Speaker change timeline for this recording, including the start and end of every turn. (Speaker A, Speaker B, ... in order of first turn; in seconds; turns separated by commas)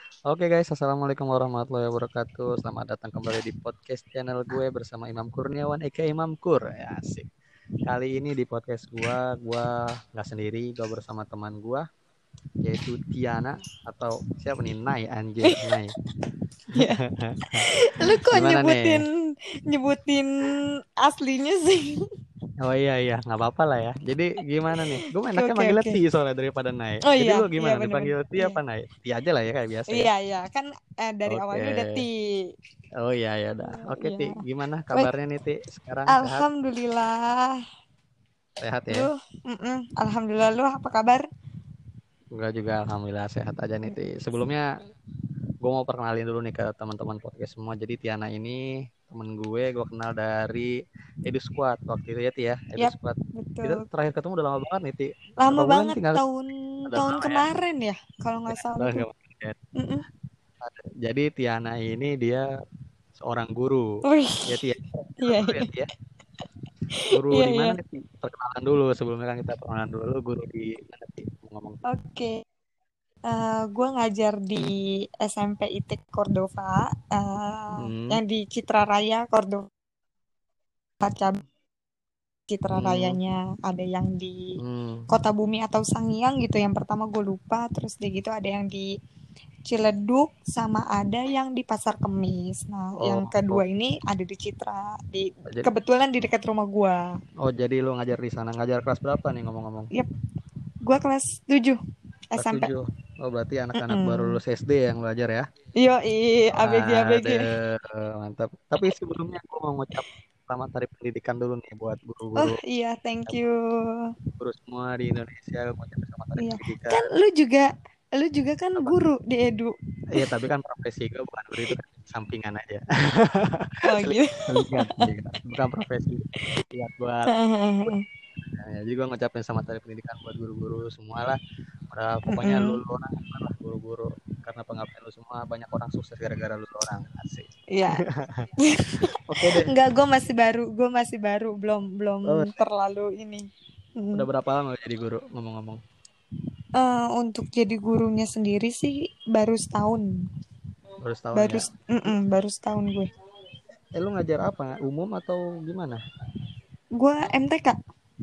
Speaker A: 0.3-7.3, Speaker A: 7.9-11.9, Speaker A: 12.6-15.9, Speaker B: 15.5-15.8, Speaker A: 16.7-19.1, Speaker B: 16.7-19.1, Speaker B: 19.7-22.0, Speaker A: 22.6-30.1, Speaker B: 24.8-26.0, Speaker B: 27.1-28.6, Speaker B: 29.9-32.2, Speaker A: 31.3-32.1, Speaker A: 33.0-36.5, Speaker B: 33.6-34.4, Speaker B: 36.1-37.6, Speaker A: 38.6-39.1, Speaker B: 38.9-41.3, Speaker A: 42.3-44.7, Speaker A: 45.6-56.2, Speaker B: 52.8-53.8, Speaker B: 55.4-59.1, Speaker A: 56.9-57.5, Speaker A: 58.5-59.6, Speaker B: 59.8-60.0, Speaker A: 60.6-62.5, Speaker A: 63.2-65.9, Speaker B: 64.0-64.5, Speaker B: 65.2-65.7, Speaker B: 66.9-67.8, Speaker A: 67.1-71.8, Speaker B: 71.9-72.4, Speaker B: 73.3-79.7, Speaker A: 77.8-78.2, Speaker B: 81.0-81.4, Speaker B: 82.5-84.5, Speaker A: 82.7-83.2, Speaker A: 84.6-85.1, Speaker B: 85.1-88.9, Speaker B: 89.7-97.0, Speaker A: 93.0-93.6, Speaker A: 97.4-99.9, Speaker B: 100.9-101.8, Speaker B: 102.3-102.7, Speaker A: 102.4-105.5, Speaker B: 103.8-104.4, Speaker B: 105.8-107.5, Speaker A: 106.5-112.6, Speaker B: 112.4-114.1, Speaker A: 114.4-117.0, Speaker B: 116.4-119.7, Speaker A: 120.1-127.3, Speaker B: 123.8-125.0, Speaker B: 127.3-128.0, Speaker A: 127.9-131.4, Speaker A: 131.9-139.7, Speaker B: 132.3-132.8, Speaker B: 137.7-138.0, Speaker B: 138.6-143.5, Speaker A: 142.3-142.5, Speaker B: 144.0-144.3, Speaker A: 144.1-145.8, Speaker B: 146.8-150.1, Speaker A: 151.0-152.2, Speaker B: 151.3-153.1, Speaker A: 154.0-156.0, Speaker B: 157.0-157.8